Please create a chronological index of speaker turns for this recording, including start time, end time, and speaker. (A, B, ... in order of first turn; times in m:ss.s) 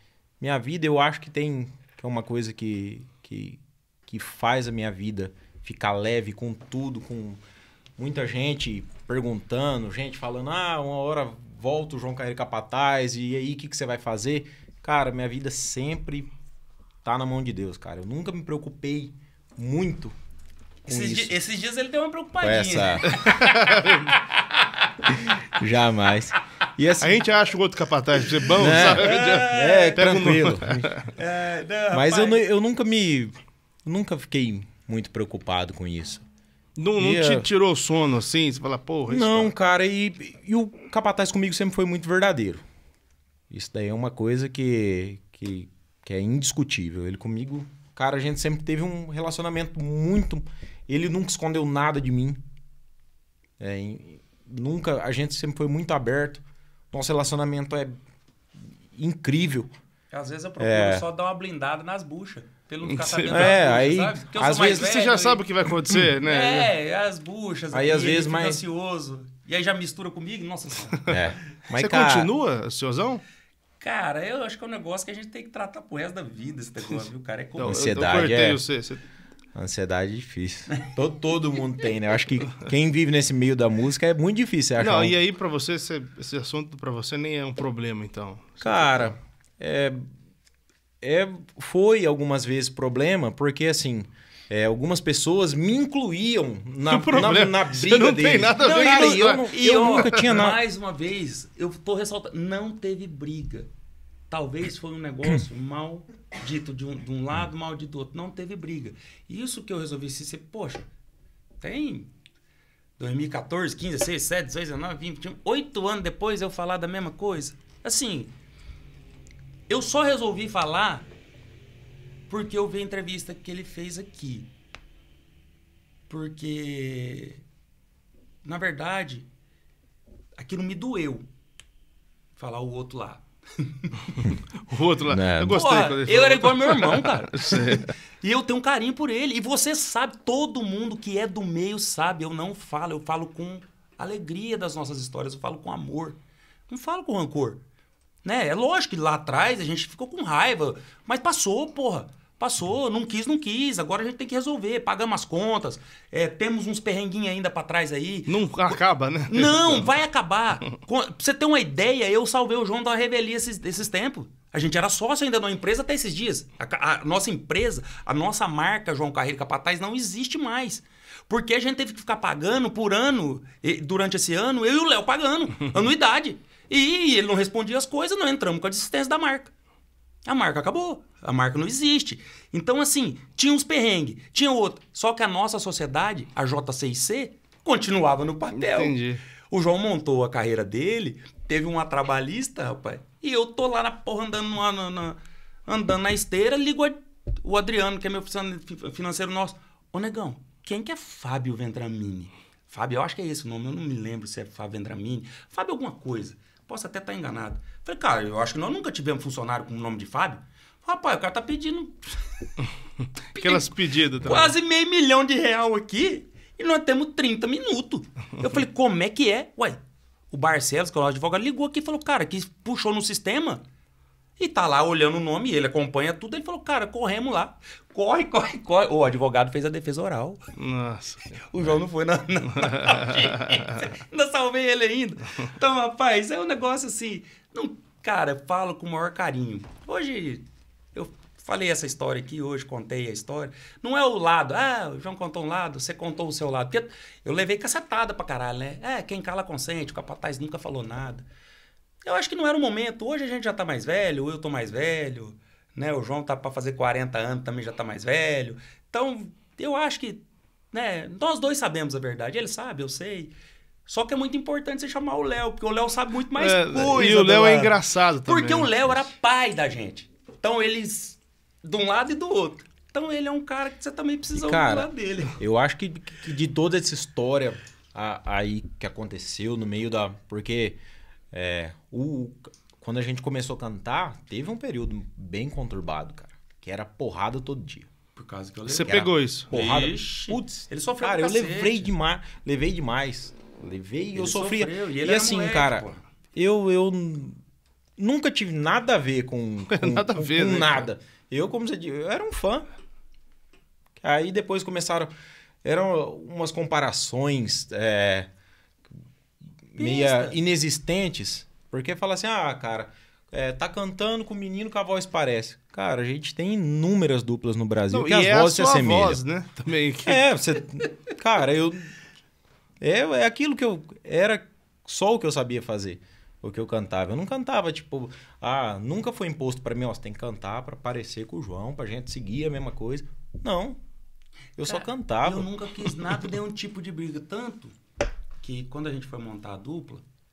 0:00.4-0:07.4 A
0:08.0-0:16.3 A
0:17.0-0:20.2 A
0:20.9-0:25.2 B
0:20.9-0:21.3 A
0:22.4-0:23.2 A
0:23.2-0:24.1 C
0:25.5-0:27.2 A
0:27.0-0:31.1 C
0:28.4-0:30.0 B
0:28.6-0:31.1 A
0:31.2-0:32.4 B
0:31.9-0:33.3 A
0:33.8-0:36.2 A
0:36.8-0:39.5 C
0:37.0-0:37.5 A
0:39.1-0:42.6 A
0:43.5-0:52.4 A
0:53.6-0:58.0 A
0:58.9-0:59.7 A
1:00.1-1:05.4 B
1:00.6-1:01.0 A
1:02.8-1:03.6 C
1:03.3-1:04.9 A
1:04.6-1:06.7 C
1:06.2-1:11.1 B
1:07.7-1:08.6 A
1:11.1-1:12.3 A
1:11.7-1:13.2 C
1:13.8-1:17.9 B
1:17.6-1:19.0 C
1:17.6-1:18.6 A
1:19.6-1:25.2 A
1:24.8-1:29.1 C
1:28.6-1:30.1 A
1:31.0-1:40.6 A
1:36.9-1:40.4 C
1:38.6-1:43.7 B
1:44.3-1:50.9 B
1:51.6-1:52.1 B
1:53.0-1:58.3 B
1:59.7-2:01.1 B
2:02.3-2:04.5 B
2:06.1-2:07.4 B
2:08.4-2:09.3 B
2:10.4-2:11.2 B
2:12.4-2:14.4 B
2:14.6-2:17.9 C
2:15.1-2:15.6 A
2:15.5-2:27.6 B
2:28.2-2:38.3 B
2:38.3-2:39.9 C
2:39.3-2:59.5 B
3:00.3-3:09.0 B
3:08.6-3:09.2 C
3:09.5-3:32.4 B
3:33.4-3:39.8 B
3:33.4-3:34.5 C
3:40.3-3:43.6 B
3:44.4-3:50.4 B
3:50.6-3:51.3 C
3:51.5-4:11.2 B
3:52.8-3:53.0 C
4:12.0-4:23.3 B
4:23.9-4:27.8 B
4:26.4-4:28.8 C
4:28.3-4:35.4 B
4:34.4-4:40.8 A
4:41.3-4:47.9 A
4:48.2-4:51.9 B
4:48.7-4:49.5 C
4:48.8-4:57.4 A
4:54.2-4:56.0 B
4:58.0-5:02.7 A
4:59.7-5:00.9 C
5:04.0-5:05.1 A
5:05.6-5:08.3 A
5:09.7-5:19.2 A
5:09.8-5:10.4 B
5:17.9-5:20.2 C
5:20.0-5:21.9 A
5:22.8-5:33.8 A
5:34.6-5:35.5 A
5:34.7-5:37.8 B
5:38.4-5:40.0 B